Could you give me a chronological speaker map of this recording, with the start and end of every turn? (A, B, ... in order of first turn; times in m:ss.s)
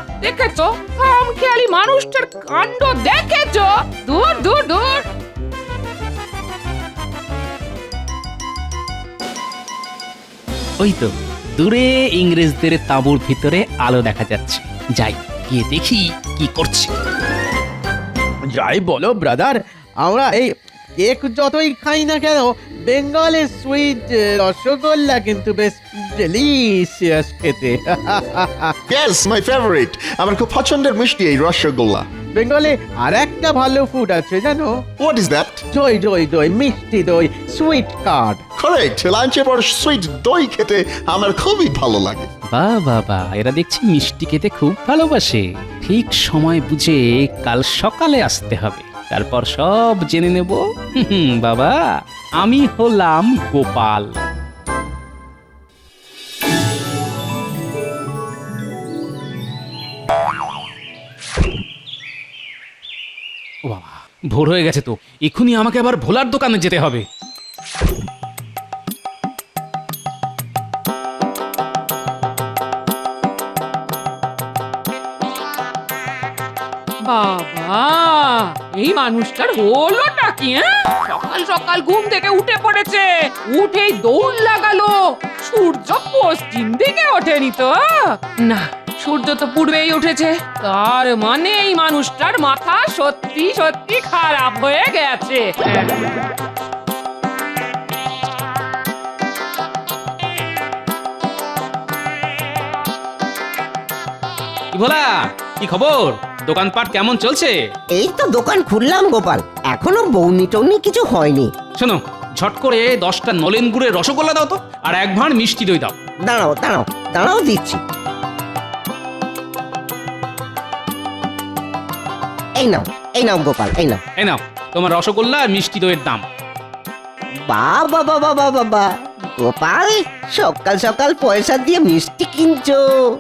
0:00.2-0:05.1 A
0:10.8-0:16.9 B
0:18.5-0:20.5 C
0:21.0-0:28.7 C
0:28.9-0:32.1 D
0:32.4-0:34.7 C
0:35.0-0:35.6 D
0:35.7-0:38.4 C
0:38.6-0:42.3 D
0:42.5-0:51.8 B
0:52.4-0:54.2 B
1:03.7-1:07.0 B
1:17.0-1:36.0 A
1:44.7-1:47.5 B
1:47.9-1:51.5 E
1:51.8-1:56.0 B
1:56.2-1:57.8 E
2:02.6-2:04.0 E
2:04.2-2:06.2 B
2:07.5-2:12.8 E